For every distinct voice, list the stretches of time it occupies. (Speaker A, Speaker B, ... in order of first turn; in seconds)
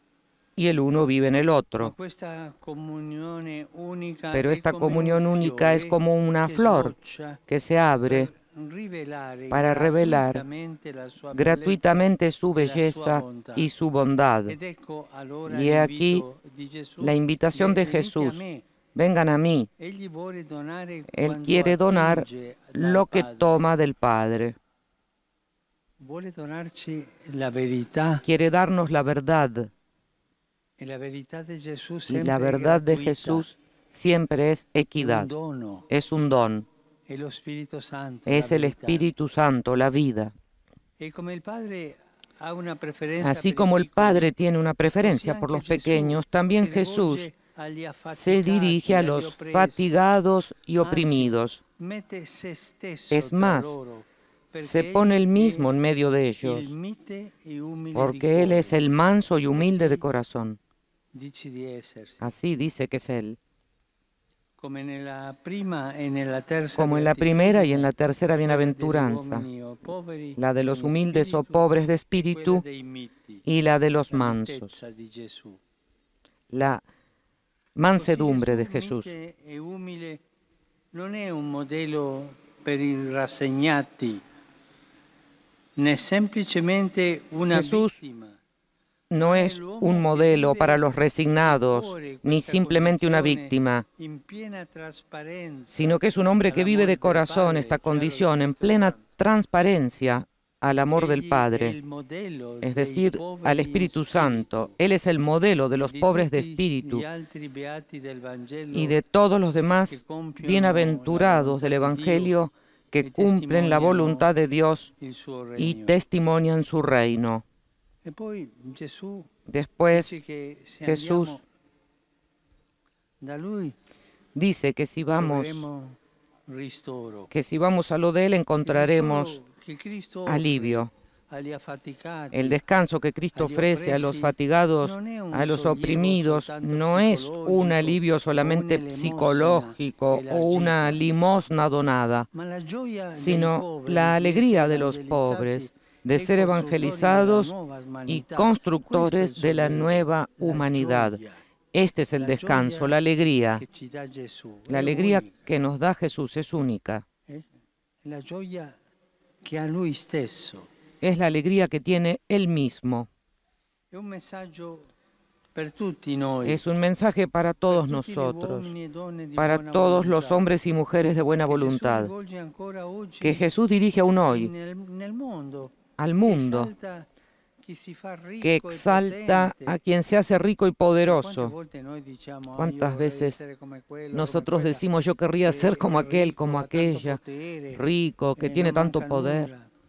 Speaker A: 0.6-1.9, 4.3-6.9, 7.5-8.3, 9.5-10.4, 11.3-14.6, 15.5-16.2, 17.0-18.4, 18.9-19.7, 21.1-24.6, 28.2-29.7, 32.1-35.3, 35.9-36.7, 38.3-40.3, 43.2-47.3, 48.1-51.6, 53.1-53.8, 54.5-56.7, 57.9-60.6, 62.2-63.4, 66.8-69.5, 70.4-72.6, 73.5-74.7, 76.5-76.8, 77.8-79.1, 87.5-87.9, 89.1-93.8, 95.7-101.8, 102.6-107.0, 108.7-114.9, 115.6-117.4, 119.5-120.2, 120.8-121.4, 124.3-125.6, 127.3-129.4, 130.3-130.9, 132.3-142.3, 143.1-147.5, 148.1-151.2, 151.7-153.6, 154.7-157.0, 161.0-163.1, 166.4-168.7, 169.4-172.1, 173.2-174.5, 176.0-176.7, 178.4-181.5, 182.5-183.4, 184.1-187.2, 187.7-189.5
Speaker B: 1.8-7.4, 8.0-13.7, 14.5-18.6, 19.8-23.5, 26.0-28.2, 30.8-33.5, 35.0-35.9, 37.1-39.1, 41.0-44.3, 45.0-49.9, 50.8-55.7, 56.4-58.8, 59.5-60.0, 61.1-62.3, 64.6-67.9, 68.4-73.4, 74.1-75.6, 77.9-80.2, 80.9-84.2, 85.8-88.4, 89.2-99.0, 100.9-104.7, 105.8-109.0, 109.9-112.4, 113.0-114.3, 115.0-116.0, 118.0-119.3, 119.9-121.4, 123.2-123.8, 125.1-127.3, 128.6-132.6, 133.3-141.0, 142.3-151.4, 152.2-153.0, 153.5-155.4, 158.0-158.8, 159.4-160.7, 163.9-164.9, 165.5-166.6, 167.7-170.5, 171.4-173.5, 174.3-177.1, 177.6-179.8, 181.0-184.8, 185.4-187.8, 188.3-189.7